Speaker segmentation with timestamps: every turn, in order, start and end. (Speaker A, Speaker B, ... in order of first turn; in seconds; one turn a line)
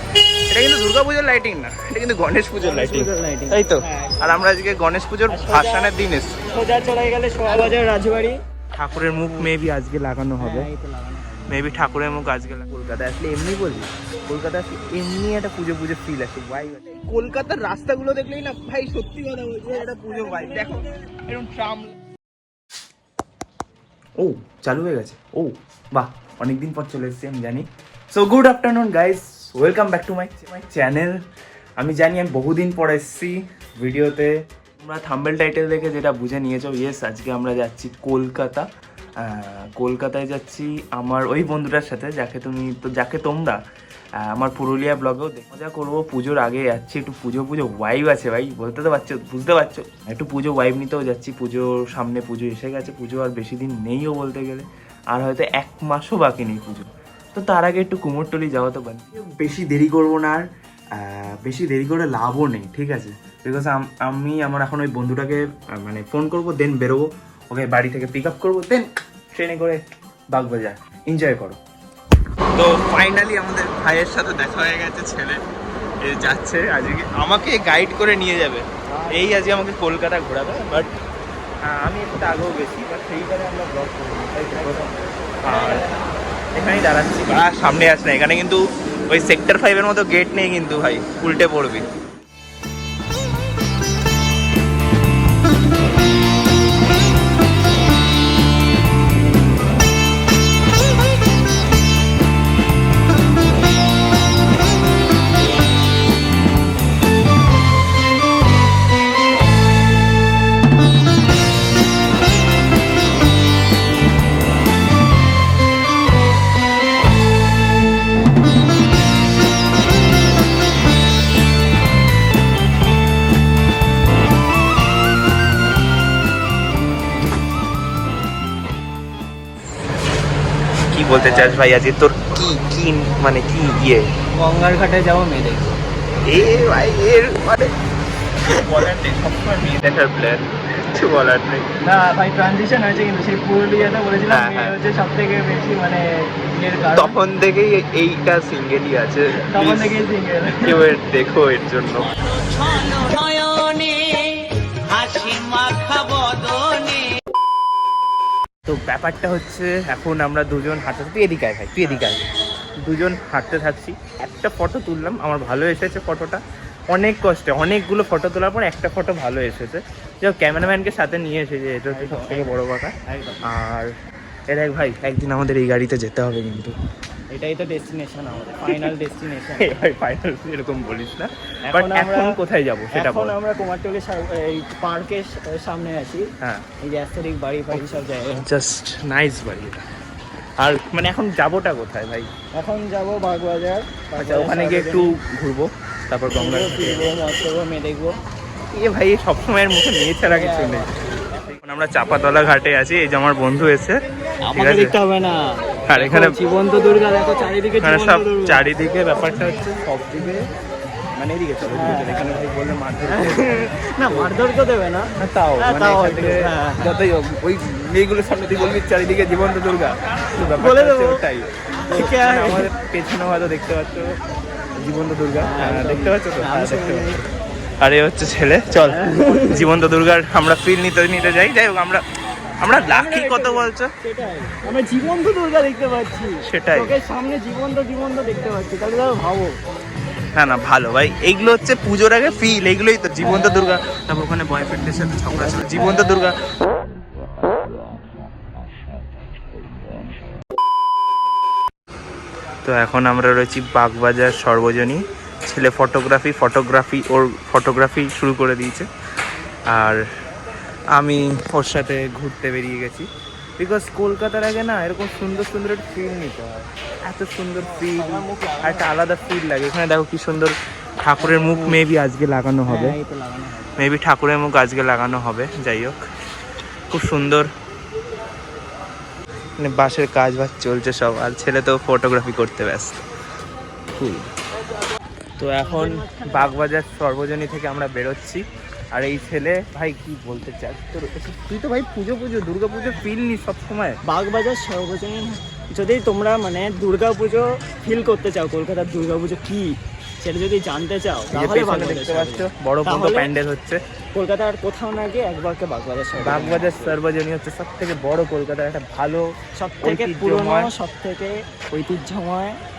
Speaker A: 0.5-6.3
Speaker B: 2.6-4.2
Speaker B: 5.3-5.9
Speaker B: 6.5-8.4
Speaker A: 8.8-10.7
Speaker B: 10.4-11.6
Speaker A: 11.5-21.9
Speaker B: 19.7-20.9
Speaker A: 24.2-31.2
Speaker A: 31.8-38.7
Speaker A: 39.2-43.6
Speaker A: 44.2-71.6
Speaker A: 72.5-75.4
Speaker A: 76.0-80.9
Speaker B: 78.9-79.4
Speaker A: 81.6-84.8
Speaker B: 84.5-84.9
Speaker A: 85.4-85.9
Speaker B: 85.5-86.0
Speaker A: 86.5-91.9
Speaker A: 130.9-134.1
Speaker B: 131.1-131.6
Speaker B: 134.3-135.7
Speaker A: 136.2-137.7
Speaker A: 138.5-141.7
Speaker B: 141.8-147.1
Speaker A: 144.3-144.7
Speaker A: 146.9-150.0
Speaker B: 149.5-150.9
Speaker A: 150.6-152.7
Speaker C: 152.4-157.1
Speaker A: 158.7-162.2
Speaker A: 162.8-172.9
Speaker B: 171.9-172.5
Speaker B: 173.1-173.4
Speaker A: 173.5-173.9
Speaker A: 174.5-176.7
Speaker B: 177.3-179.7
Speaker A: 178.7-178.9
Speaker A: 179.6-183.3
Speaker B: 181.7-182.4
Speaker B: 182.9-186.3
Speaker A: 186.4-186.7
Speaker B: 186.8-188.4
Speaker A: 188.4-189.8
Speaker A: 190.6-192.3
Speaker B: 192.5-195.1
Speaker A: 194.2-197.1
Speaker B: 196.3-198.2
Speaker A: 198.7-200.9
Speaker B: 200.2-200.9
Speaker A: 201.4-204.0
Speaker B: 204.4-208.6
Speaker A: 204.5-204.9
Speaker A: 205.9-206.3
Speaker A: 207.8-210.4
Speaker A: 211.1-214.3
Speaker B: 211.7-212.4
Speaker B: 213.1-216.8
Speaker A: 215.2-224.2
Speaker B: 220.5-221.2
Speaker B: 221.8-222.7
Speaker A: 224.8-227.2
Speaker B: 225.4-227.2
Speaker A: 227.8-232.0
Speaker B: 228.9-229.7
Speaker A: 232.6-233.9
Speaker B: 232.8-239.5
Speaker A: 236.4-236.9
Speaker A: 240.3-246.4
Speaker B: 243.2-243.7
Speaker B: 245.3-246.1
Speaker A: 252.6-258.9
Speaker A: 259.7-260.0
Speaker A: 260.9-273.0
Speaker B: 267.6-268.9
Speaker B: 271.2-271.8
Speaker B: 272.6-273.8
Speaker A: 273.8-276.0
Speaker A: 276.9-277.5
Speaker A: 279.6-283.0
Speaker A: 283.9-284.3
Speaker A: 285.4-294.0
Speaker B: 285.6-286.6
Speaker B: 294.0-303.3
Speaker A: 301.3-303.8
Speaker B: 304.1-307.0
Speaker A: 306.2-309.3
Speaker B: 309.6-312.6
Speaker A: 309.8-310.7